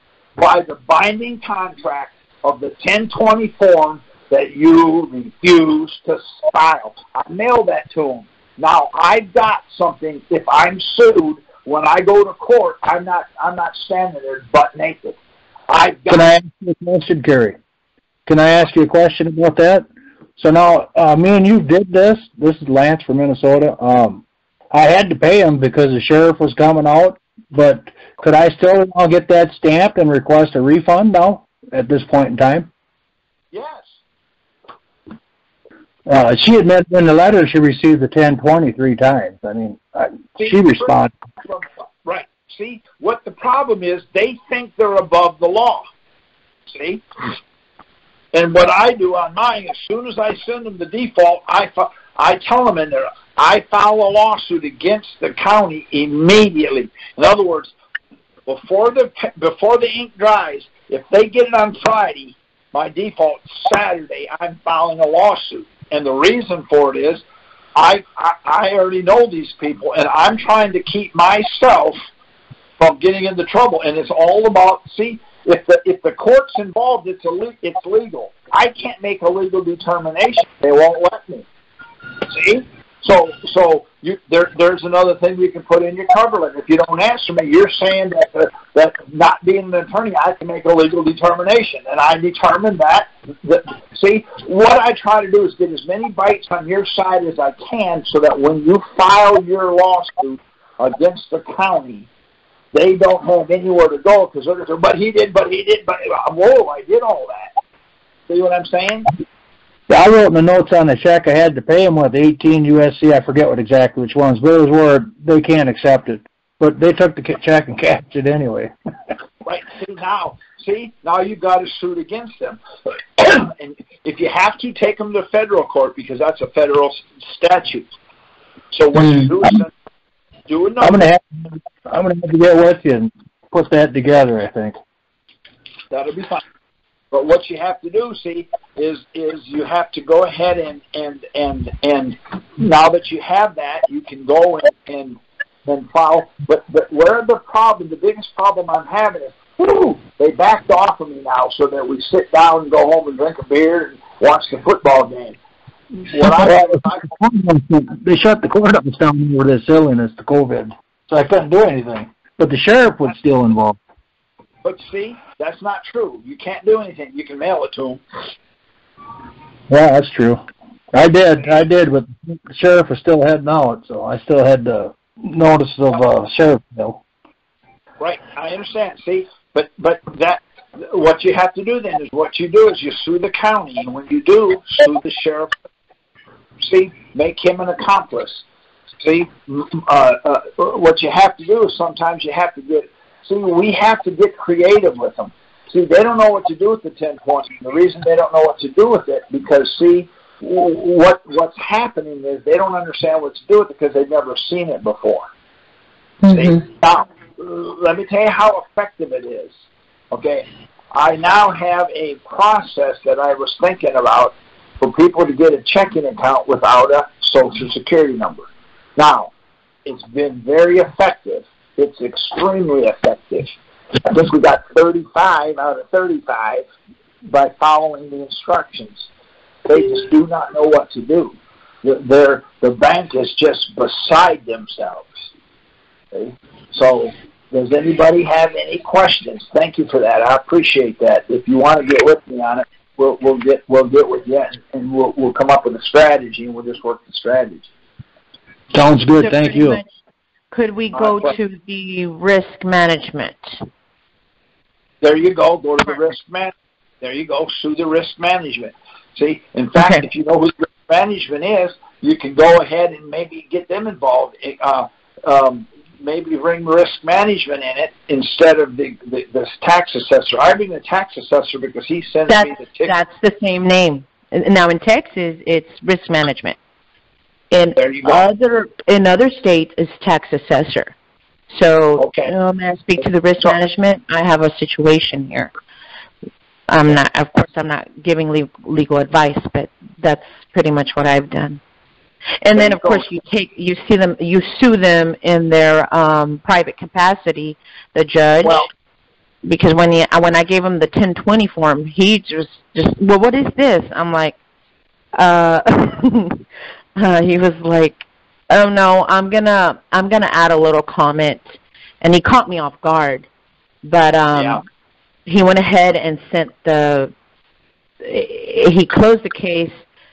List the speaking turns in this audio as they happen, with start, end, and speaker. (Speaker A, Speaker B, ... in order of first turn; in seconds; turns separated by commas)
Speaker A: 0.4-15.2, Speaker A: 15.7-16.3, Speaker B: 16.1-17.6, Speaker B: 18.2-19.9, Speaker B: 20.4-32.7, Speaker A: 33.5-34.0, Speaker B: 36.0-41.1, Speaker A: 40.4-45.9, Speaker A: 46.7-47.0, Speaker A: 48.3-57.7, Speaker A: 58.5-67.2, Speaker A: 67.7-72.0, Speaker A: 72.8-81.5, Speaker A: 82.3-102.1, Speaker A: 102.7-107.5, Speaker A: 108.3-109.1, Speaker B: 109.9-118.7, Speaker A: 119.4-122.6, Speaker A: 123.2-127.9, Speaker A: 128.7-129.7, Speaker A: 130.5-131.0, Speaker B: 130.8-134.8, Speaker A: 135.9-136.4, Speaker A: 137.1-155.4, Speaker A: 156.0-157.1, Speaker B: 156.2-163.8, Speaker A: 164.6-168.0, Speaker B: 169.7-177.0, Speaker A: 178.0-185.5, Speaker A: 186.6-188.4, Speaker A: 189.0-205.2, Speaker C: 206.2-206.6, Speaker A: 206.3-209.5, Speaker A: 210.1-219.3, Speaker A: 219.8-223.5, Speaker A: 224.0-226.6, Speaker A: 227.2-229.1, Speaker A: 229.6-235.1, Speaker A: 236.1-247.7, Speaker B: 248.7-249.8, Speaker C: 249.3-249.8, Speaker C: 250.5-253.6, Speaker A: 250.9-251.3, Speaker A: 255.0-272.9, Speaker C: 259.8-260.0, Speaker C: 272.3-276.6, Speaker C: 277.5-280.9, Speaker A: 277.8-278.2, Speaker C: 281.5-285.5, Speaker A: 282.0-282.3, Speaker C: 286.7-291.6, Speaker C: 292.4-298.6, Speaker A: 292.6-293.2, Speaker A: 298.4-298.7, Speaker C: 299.4-304.4, Speaker C: 305.1-306.4, Speaker C: 306.9-313.3, Speaker C: 313.8-314.6, Speaker A: 314.3-314.6, Speaker C: 315.2-317.1, Speaker C: 318.0-319.8